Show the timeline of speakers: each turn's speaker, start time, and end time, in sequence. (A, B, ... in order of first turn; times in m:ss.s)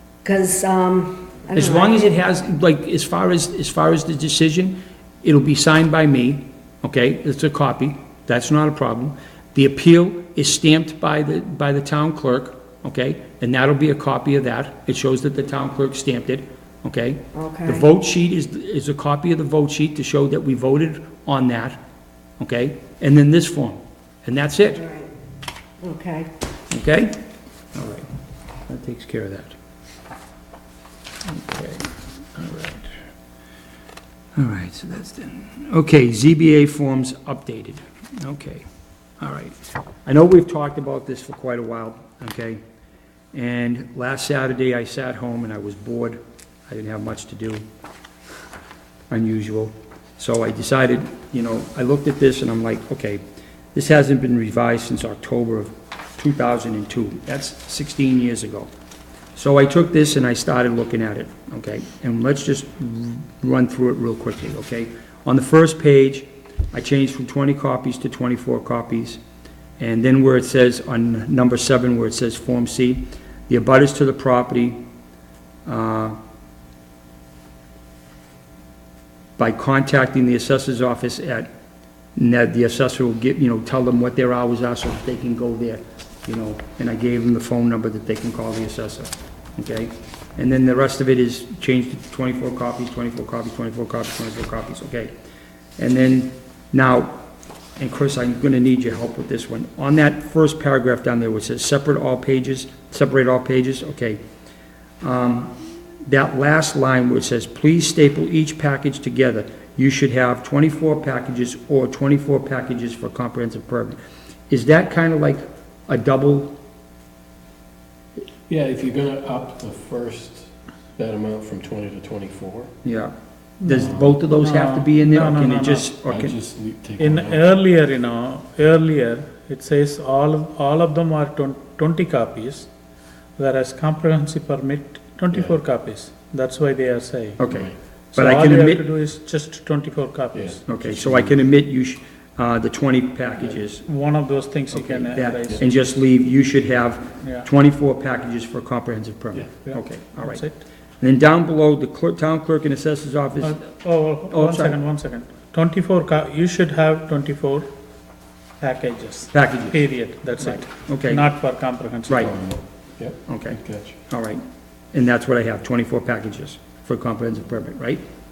0:00.2-0:02.2 A
0:01.5-0:21.8 B
0:17.3-0:17.9 A
0:22.4-0:24.8 B
0:24.7-0:25.2 A
0:25.8-0:26.3 A
0:26.7-0:27.2 B
0:27.7-0:28.1 B
0:28.7-0:29.6 B
0:31.3-0:32.9 B
0:34.4-0:38.7 B
0:39.2-0:42.6 B
0:43.3-0:47.6 B
0:49.1-0:53.2 B
0:53.7-0:58.7 B
0:59.4-1:09.2 B
1:09.8-1:14.8 B
1:15.7-1:16.2 B
1:19.4-1:21.5 B
1:22.2-1:35.1 B
1:35.8-1:37.2 B
1:37.8-1:44.2 B
1:45.0-1:54.0 B
1:54.5-1:56.6 B
1:58.5-2:02.7 C
2:02.8-2:06.4 B
2:03.6-2:05.9 D
2:03.7-2:04.2 C
2:06.1-2:07.5 C
2:07.0-2:12.7 D
2:13.4-2:17.4 D
2:17.4-2:18.8 B
2:17.5-2:17.8 C
2:18.1-2:20.6 D
2:20.3-2:21.4 C
2:20.7-2:23.9 B
2:23.8-2:25.6 D
2:24.7-2:30.4 B
2:27.2-2:27.5 D
2:29.6-2:30.6 D
2:31.0-2:33.6 B
2:33.4-2:37.7 D
2:34.3-2:34.8 B
2:38.6-2:42.3 D
2:39.3-2:39.8 B
2:40.4-2:41.3 B
2:42.1-2:42.3 B
2:42.2-2:44.0 C
2:43.3-2:44.4 B
2:44.9-2:48.0 B